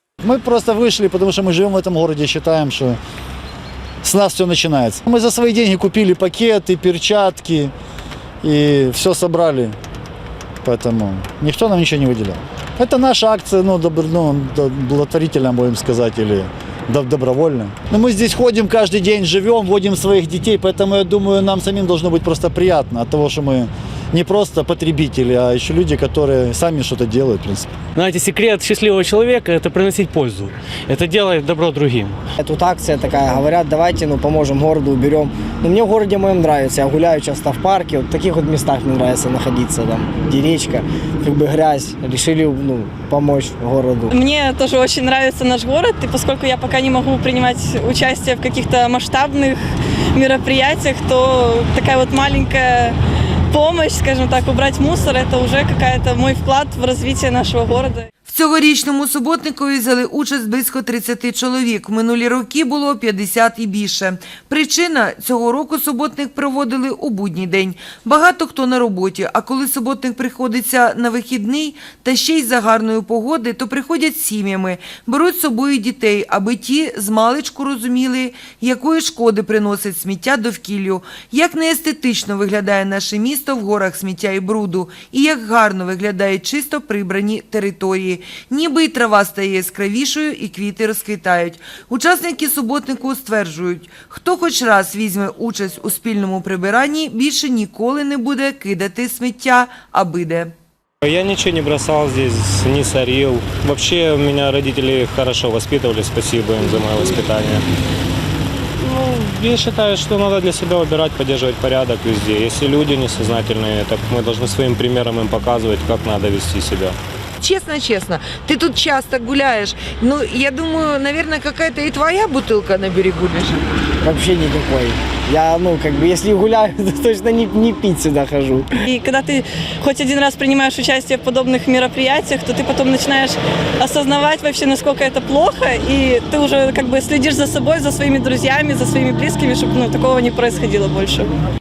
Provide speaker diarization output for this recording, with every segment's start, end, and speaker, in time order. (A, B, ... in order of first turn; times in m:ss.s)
0:00.2-0:03.0 A
0:04.0-0:07.7 A
0:08.4-0:09.7 A
0:10.6-0:27.7 A
0:28.0-0:32.2 B
0:32.4-0:44.1 C
0:44.1-0:49.6 D
0:50.1-0:53.0 D
0:53.5-0:58.1 D
0:58.2-1:40.5 E
1:41.0-1:47.6 F
1:48.8-1:57.0 F
1:58.5-1:59.7 E
2:01.5-2:03.4 E
2:04.0-2:08.8 C
2:08.8-2:21.3 D